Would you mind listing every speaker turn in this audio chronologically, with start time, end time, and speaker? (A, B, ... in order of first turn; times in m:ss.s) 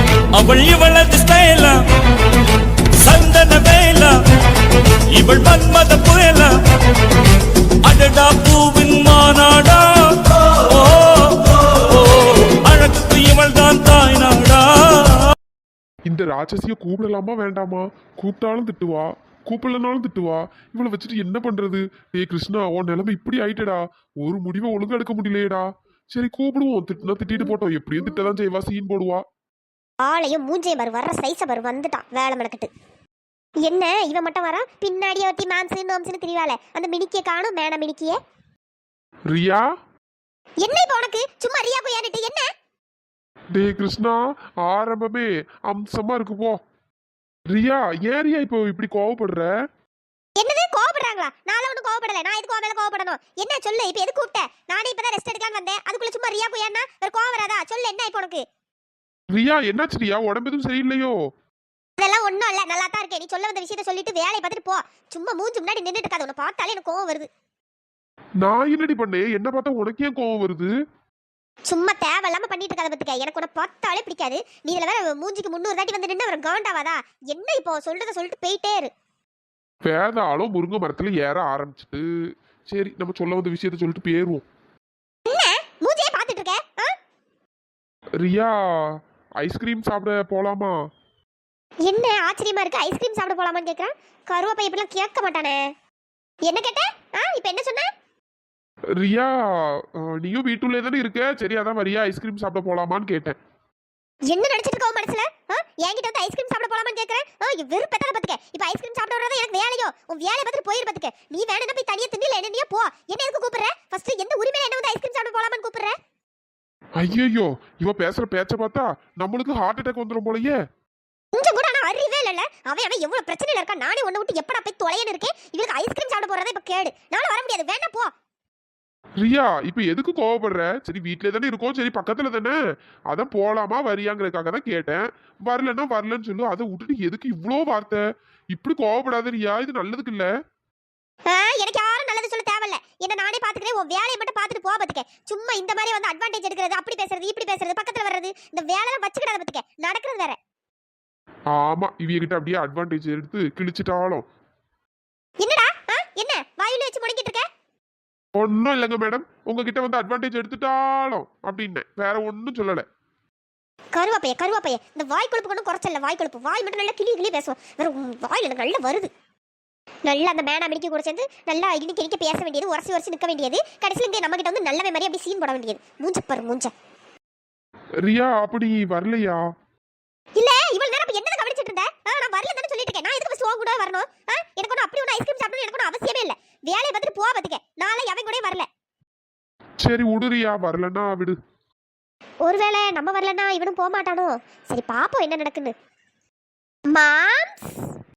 0:00.3-0:01.7 A
0:03.0-0:04.1 A
0:05.1-0:06.5 A
0:07.8-0:15.3 A
0:16.1-0:29.2 B
0:30.0-0:32.7 C
0:33.6-0:38.2 C
0:39.3-0:39.6 B
0:40.6-0:42.5 C
0:43.5-0:46.6 B
0:47.5-0:49.5 B
0:50.4-0:58.4 C
0:59.3-1:01.2 B
1:02.0-1:07.3 C
1:08.4-1:10.7 B
1:11.6-1:18.9 C
1:19.8-1:22.0 B
1:22.7-1:24.4 B
1:25.3-1:26.9 C
1:28.2-1:30.8 B
1:31.8-1:35.7 C
1:36.4-1:37.9 C
1:38.9-1:43.4 B
1:44.3-1:55.9 C
1:57.0-2:00.6 B
2:01.3-2:08.1 C
2:09.2-2:12.6 B
2:13.1-2:20.3 B
2:21.3-2:30.4 C
2:31.5-2:34.2 B
2:35.4-2:37.4 C
2:38.3-2:42.8 B
2:43.9-2:49.1 C
2:50.0-2:56.7 C
2:58.0-2:59.4 B
3:00.4-3:08.6 C
3:09.8-3:11.4 B
3:12.4-3:15.7 C
3:16.9-3:17.8 C